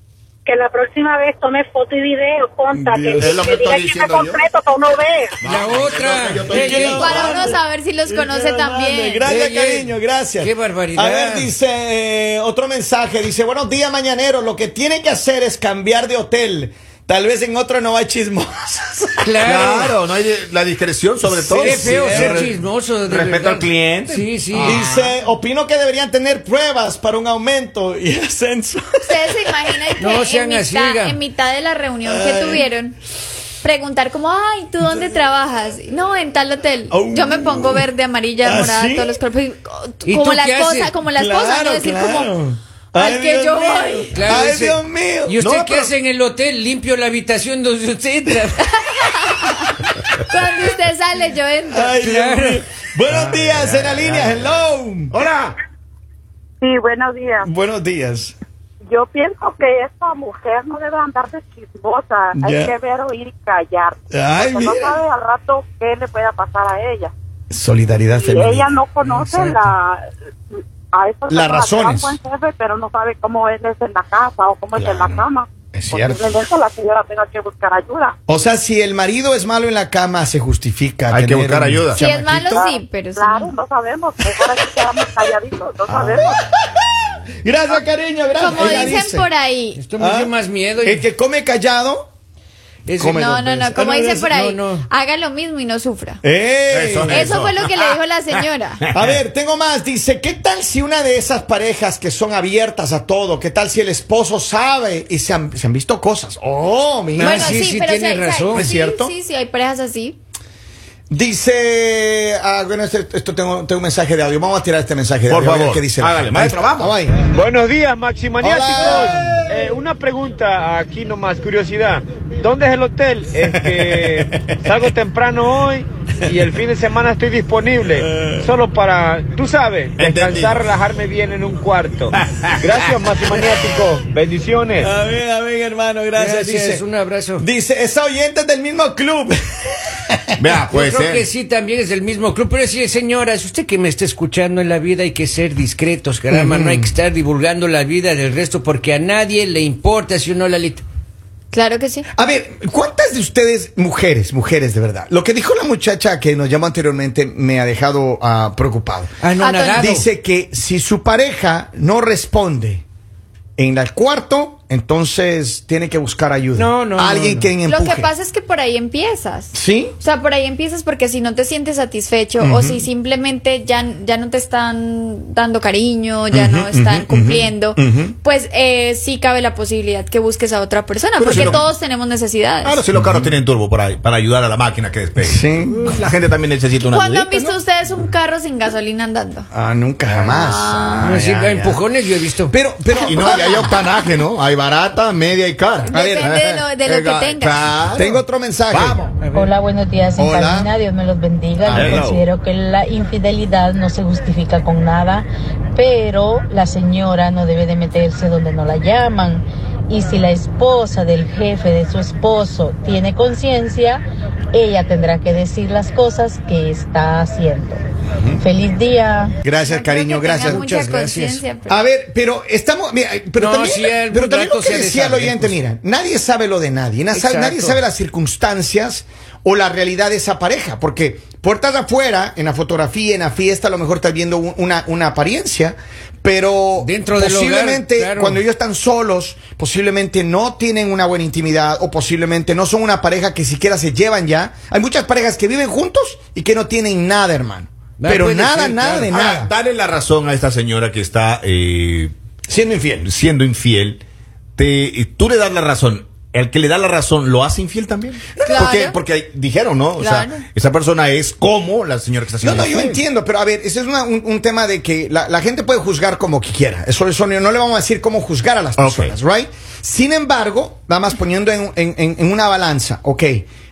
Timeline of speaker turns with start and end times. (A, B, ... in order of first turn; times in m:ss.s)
0:00.4-0:05.4 A
0:02.7-0:03.5 B
0:03.2-0:04.4 C
0:05.4-0:07.5 C
0:05.4-0:07.1 D
0:06.5-0:19.3 B
0:06.9-0:09.3 E
0:09.2-0:11.5 D
0:19.2-0:20.0 D
0:19.4-0:22.5 C
0:21.3-0:24.8 D
0:21.6-0:22.5 B
0:23.0-0:25.1 C
0:24.5-0:30.0 B
0:29.1-0:33.0 E
0:30.0-0:31.2 D
0:32.0-0:32.7 B
0:33.6-0:42.3 E
0:36.9-0:37.9 B
0:38.4-0:39.2 B
0:40.0-0:40.9 D
0:41.1-0:45.4 B
0:42.9-0:44.2 E
0:44.1-0:48.6 D
0:45.4-0:45.9 C
0:48.7-0:52.0 E
0:51.7-0:55.2 B
0:52.0-0:52.6 D
0:53.1-0:55.6 C
0:56.6-0:57.5 F
0:57.4-0:58.3 B
0:58.9-1:07.1 F
1:02.3-1:02.7 B
1:04.1-1:05.0 B
1:07.5-1:09.7 B
1:08.1-1:10.0 F
1:10.9-1:18.2 F
1:11.3-1:12.2 B
1:14.8-1:16.2 B
1:18.3-1:22.6 B
1:21.1-1:22.0 C
1:21.9-1:23.5 E
1:22.4-1:26.4 F
1:24.4-1:24.9 B
1:25.9-1:26.9 B
1:27.4-1:29.3 B
1:28.4-1:29.8 E
1:29.8-1:31.0 D
1:30.0-1:32.1 B
1:32.8-1:34.8 D
1:33.0-1:34.3 B
1:33.1-1:36.2 E
1:36.2-1:37.4 B
1:36.7-1:39.2 C
1:37.1-1:38.8 E
1:38.9-1:47.6 B
1:47.1-1:48.7 D
1:47.2-1:50.2 E
1:48.5-1:49.1 B
1:51.1-1:57.2 B
1:55.3-1:56.9 C
1:57.3-2:14.9 G
1:58.4-1:59.5 B
1:58.8-1:59.3 C
2:03.4-2:04.2 C
2:10.0-2:10.6 C
2:12.3-2:12.7 C
2:14.8-2:16.8 B
2:16.2-2:17.4 D
2:17.4-2:19.4 B
2:20.4-2:21.2 C
2:20.5-2:30.8 D
2:26.3-2:26.9 B
2:31.5-2:32.0 E
2:32.1-2:39.1 B
2:39.2-2:40.0 D
2:39.4-2:39.9 E
2:39.7-2:42.8 B
2:43.6-2:48.1 B
2:46.5-2:47.5 D
2:47.6-3:02.8 E
2:49.5-2:50.0 B
2:52.4-2:52.8 B
2:56.3-2:58.1 B
3:01.2-3:01.7 C
3:01.2-3:01.6 B
3:02.6-3:07.5 C
3:02.9-3:03.3 B
3:05.2-3:05.9 B
3:06.9-3:09.5 E
3:09.5-3:11.8 B
3:10.1-3:11.2 E
3:11.0-3:12.5 D
3:12.5-3:13.8 B
3:12.9-3:13.8 E
3:13.1-3:19.2 C
3:15.8-3:17.6 E
3:15.9-3:16.3 B
3:17.9-3:19.0 B
3:19.2-3:19.5 D
3:19.3-3:34.0 H
3:20.2-3:20.7 B
3:21.6-3:22.1 B
3:21.7-3:22.2 C
3:34.5-3:39.4 H
3:39.4-3:40.6 B
3:39.6-3:41.7 E
3:40.4-3:41.4 D
3:41.7-4:09.5 B
3:43.4-3:45.6 D
3:47.1-3:47.8 D
3:56.8-3:58.4 D
4:08.0-4:09.1 D
4:09.1-4:12.1 C
4:12.5-4:13.1 B
4:13.0-4:14.0 C
4:14.6-4:23.0 C
4:18.3-4:18.7 B
4:18.4-4:19.0 E
4:20.0-4:20.4 E
4:22.4-4:33.4 B
4:28.8-4:29.1 C